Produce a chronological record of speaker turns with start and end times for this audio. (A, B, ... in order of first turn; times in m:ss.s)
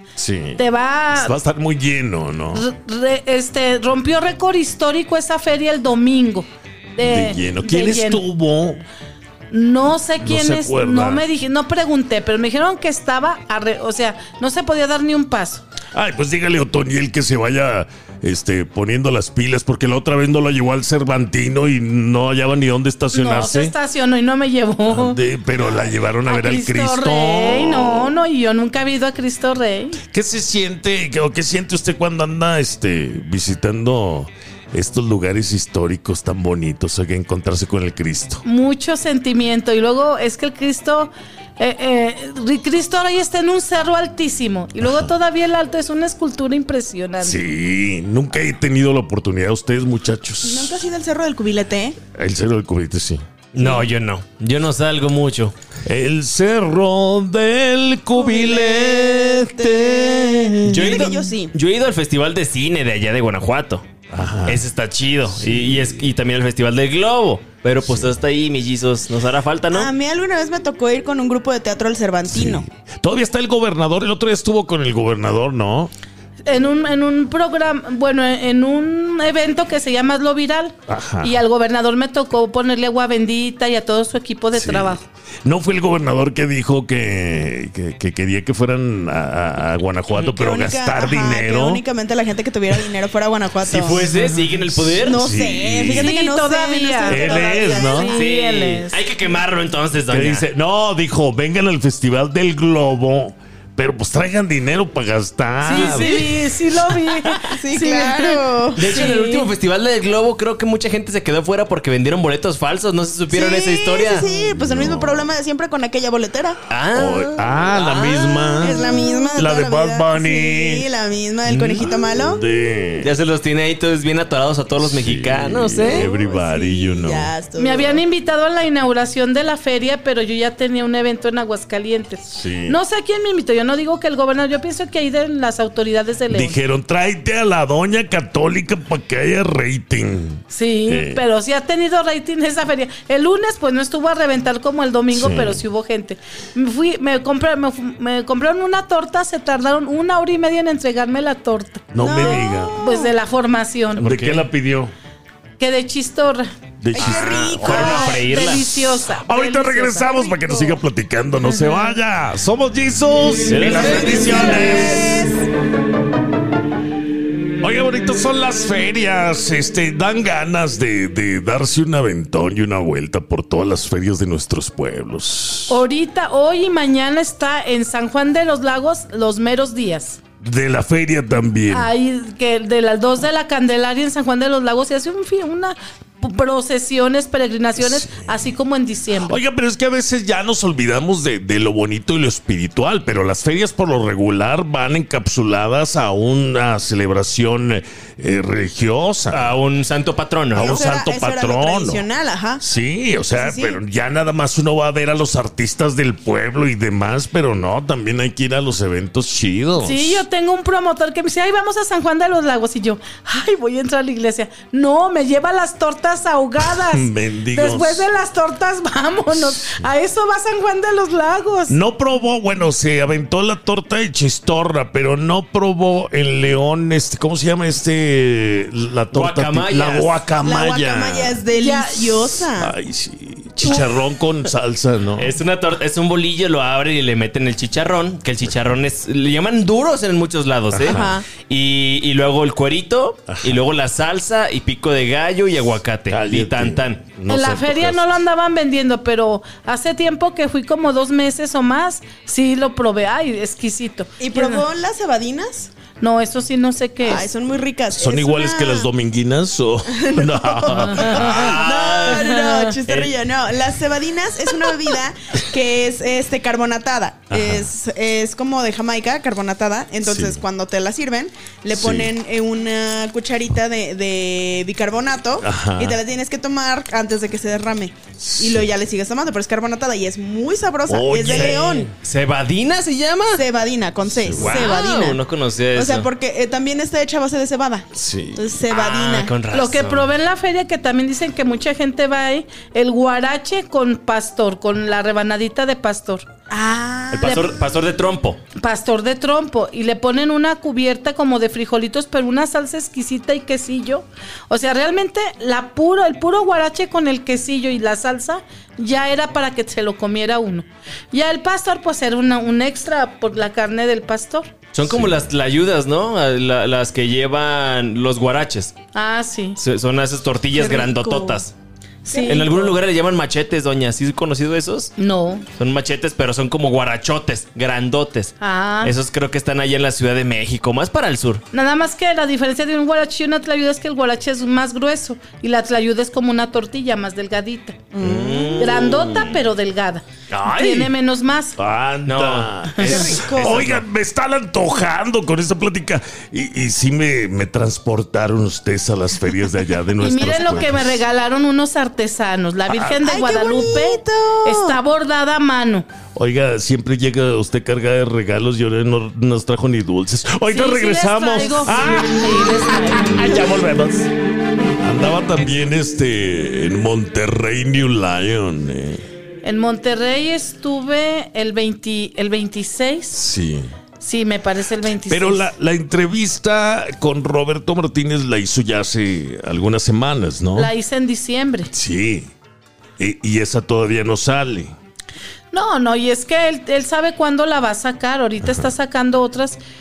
0:00.2-0:00.6 A
0:00.6-0:01.4 B
0:01.1-0:02.7 A
0:02.5-0:08.2 B
0:07.0-0:08.8 A
0:09.5-0:15.6 B
0:10.2-0:11.2 A
0:15.9-0:23.7 A
0:23.1-0:25.2 B
0:24.9-0:28.1 A
0:26.2-0:30.0 B
0:30.1-0:38.4 A
0:38.4-0:47.4 B
0:44.8-0:45.1 A
0:47.2-0:50.9 A
0:50.4-0:52.0 C
0:52.1-0:53.2 A
0:53.5-0:55.5 D
0:53.6-0:53.8 C
0:55.9-1:01.0 A
0:58.2-1:01.5 C
1:00.7-1:03.8 D
1:04.1-1:04.6 A
1:04.5-1:09.9 D
1:05.4-1:06.1 A
1:07.8-1:08.1 A
1:09.7-1:12.6 C
1:12.3-1:15.9 A
1:16.5-1:25.0 B
1:20.9-1:21.4 A
1:24.5-1:31.8 A
1:30.2-1:34.2 C
1:33.6-1:35.2 D
1:34.3-1:36.1 A
1:35.0-1:38.2 C
1:35.9-1:39.0 B
1:37.1-1:38.1 A
1:38.1-1:40.4 D
1:40.1-1:46.4 A
1:45.6-1:49.5 B
1:45.7-1:46.2 C
1:47.5-1:49.0 C
1:48.8-1:54.3 D
1:53.3-1:56.6 C
1:54.3-1:55.3 A
1:56.7-1:59.0 D
1:57.0-2:00.9 A
1:58.6-2:02.4 C
2:01.5-2:01.8 D
2:01.5-2:03.1 A
2:03.0-2:06.1 D
2:04.8-2:07.3 A
2:05.8-2:08.0 C
2:07.6-2:16.6 B
2:12.3-2:12.8 A
2:16.3-2:21.2 A
2:20.5-2:34.1 B
2:25.1-2:25.6 A
2:31.9-2:32.8 A
2:32.0-2:33.1 C
2:34.0-2:34.5 D
2:34.0-2:34.9 A
2:35.6-2:36.5 B
2:36.8-2:37.9 A
2:36.9-2:38.4 C
2:36.9-2:38.7 D
2:37.6-2:40.8 B
2:38.5-2:45.3 A
2:43.5-2:45.0 D
2:43.6-2:45.4 C
2:47.6-2:55.8 A
2:55.7-3:00.2 B
3:00.4-3:01.9 A
3:01.7-3:09.4 B
3:07.8-3:08.3 A
3:09.2-3:19.5 A
3:19.3-3:20.9 D
3:20.5-3:22.6 C
3:20.5-3:22.0 A
3:22.6-3:30.2 A
3:23.3-3:23.8 C
3:29.8-3:41.8 B
3:36.6-3:38.1 A
3:39.4-3:39.9 A
3:41.7-3:51.4 A
3:49.1-3:50.2 D
3:50.4-3:52.8 C
3:51.5-3:52.5 B
3:52.6-3:55.3 A
3:55.2-4:07.0 D
4:00.7-4:01.2 A
4:00.9-4:01.3 C
4:03.3-4:03.6 A
4:06.1-4:08.2 A
4:07.3-4:14.6 B
4:14.2-4:15.7 C
4:16.0-4:17.3 B
4:17.0-4:18.9 C
4:17.9-4:21.6 A
4:19.9-4:41.9 C
4:21.0-4:23.1 D
4:22.1-4:22.6 B
4:27.3-4:27.7 A
4:30.0-4:30.4 A
4:31.7-4:32.1 A
4:35.4-4:36.0 A
4:38.2-4:38.7 A
4:40.9-4:41.7 A
4:41.2-4:43.4 D
4:43.3-4:45.2 C
4:44.2-4:44.7 A
4:44.4-4:46.1 D
4:45.7-4:49.4 C
4:47.9-4:48.5 A
4:48.7-4:50.1 D
4:49.5-4:56.3 B
4:56.5-4:57.4 C
4:57.1-4:58.4 D
4:57.2-4:57.5 B
4:58.6-5:14.5 B
5:14.7-5:18.7 D
5:14.8-5:15.3 A
5:18.9-5:19.6 B
5:19.6-5:21.5 D
5:20.5-5:21.4 C
5:22.1-5:22.5 B
5:22.1-5:22.8 C
5:22.2-5:24.9 D
5:25.0-5:25.5 B
5:25.6-5:31.4 D
5:28.4-5:28.9 B
5:31.5-5:37.8 B
5:37.9-5:38.8 C
5:38.0-5:39.4 D
5:38.0-5:39.0 A
5:38.6-5:41.6 B
5:40.3-5:40.9 A
5:41.6-5:51.0 A
5:42.1-5:43.8 D
5:42.8-5:43.0 B
5:42.8-5:43.6 C
5:50.0-5:55.9 B
5:52.7-5:53.0 A
5:53.0-5:54.8 C
5:56.2-6:04.1 A
6:00.5-6:03.4 B
6:04.8-6:09.0 A
6:09.4-6:13.2 B
6:13.1-6:13.7 A
6:14.0-6:15.5 B
6:15.1-6:20.7 A
6:20.6-6:21.7 B
6:21.7-6:22.3 A
6:23.0-6:24.7 A
6:25.5-6:29.6 B
6:28.4-6:28.7 A